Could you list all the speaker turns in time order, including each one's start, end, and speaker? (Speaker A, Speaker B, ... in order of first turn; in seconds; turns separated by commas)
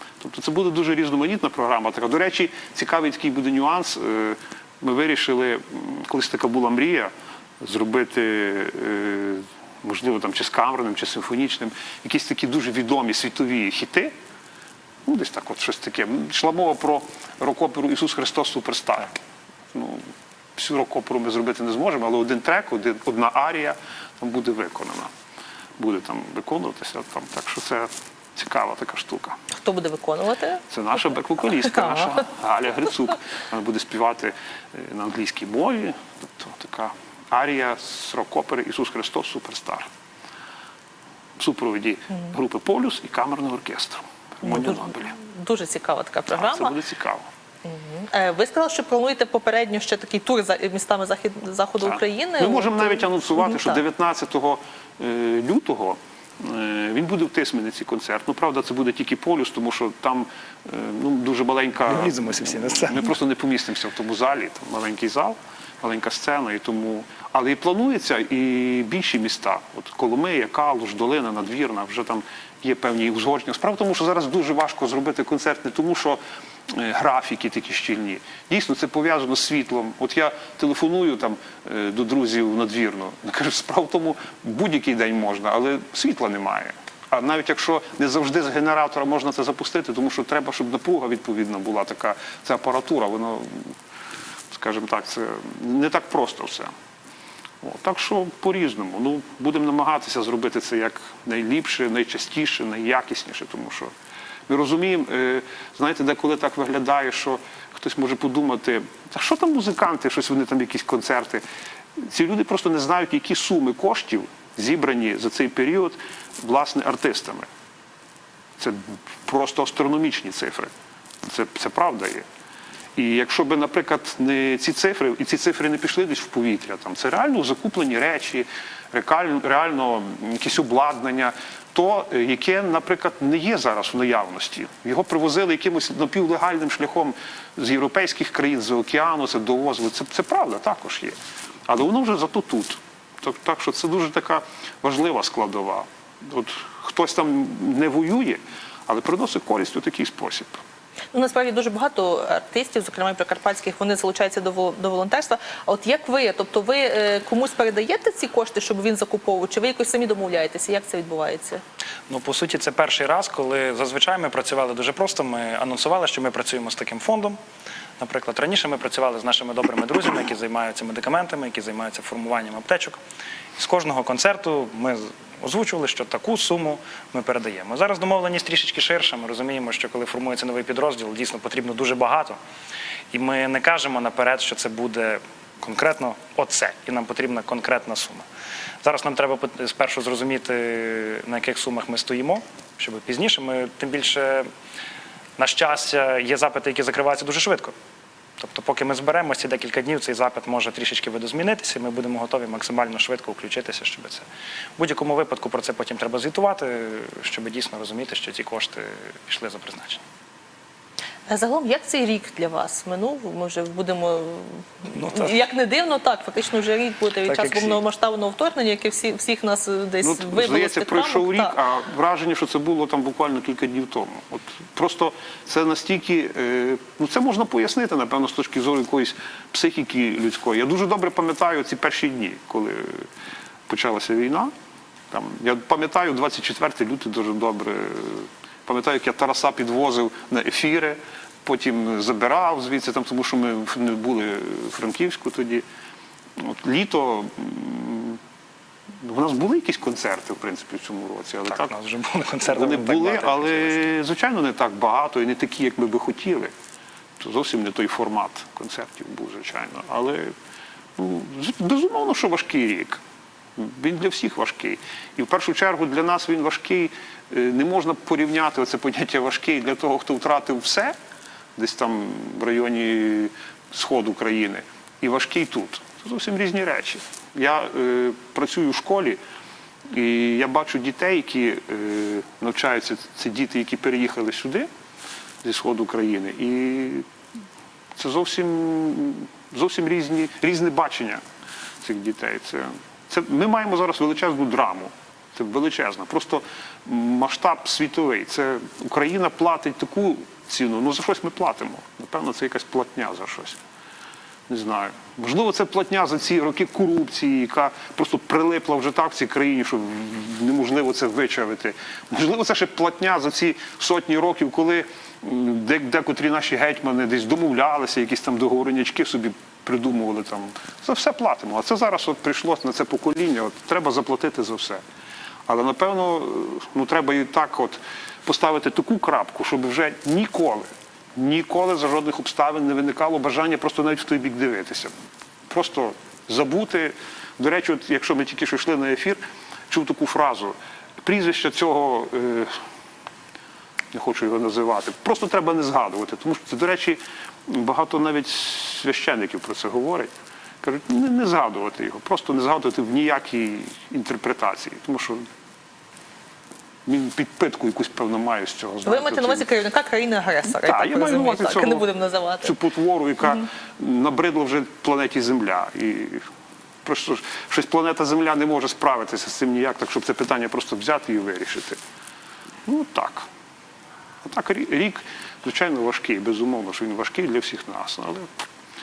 Speaker A: 0.2-14.1, Speaker A: 15.0-25.1, Speaker A: 25.8-29.4, Speaker B: 29.5-30.6, Speaker A: 30.7-39.9, Speaker B: 31.7-32.1, Speaker A: 41.4-45.1, Speaker B: 44.4-46.8, Speaker A: 46.3-47.3, Speaker B: 47.6-53.8, Speaker A: 51.8-93.8, Speaker C: 61.9-63.1, Speaker A: 94.5-96.7, Speaker A: 97.6-103.9, Speaker A: 104.5-111.4, Speaker A: 112.0-117.5, Speaker A: 118.6-120.7, Speaker A: 121.2-122.2, Speaker A: 123.0-141.1, Speaker A: 141.7-150.6, Speaker B: 151.1-161.6, Speaker C: 162.1-167.4, Speaker C: 168.0-173.0, Speaker C: 173.6-182.4, Speaker C: 183.1-188.2, Speaker C: 188.8-194.5, Speaker C: 195.4-197.7, Speaker C: 198.4-204.2, Speaker C: 204.8-210.0, Speaker B: 211.3-221.5, Speaker C: 214.9-215.3, Speaker C: 217.2-217.8, Speaker A: 220.0-233.1, Speaker A: 233.7-234.5, Speaker A: 235.1-245.6, Speaker A: 246.4-248.2, Speaker A: 249.0-251.7, Speaker C: 251.5-253.8, Speaker A: 252.4-256.5, Speaker A: 257.2-260.3, Speaker A: 260.9-263.0, Speaker A: 263.6-270.9, Speaker A: 271.6-279.2, Speaker A: 279.9-284.7, Speaker A: 285.4-287.1, Speaker A: 287.9-291.2, Speaker A: 291.8-303.6, Speaker A: 304.5-324.8, Speaker A: 325.5-334.9, Speaker A: 335.5-342.6, Speaker A: 343.9-355.3, Speaker A: 356.9-359.4, Speaker B: 358.8-362.5, Speaker A: 360.5-361.9, Speaker A: 362.4-366.3, Speaker A: 366.8-371.8, Speaker A: 372.6-373.3, Speaker A: 374.2-378.4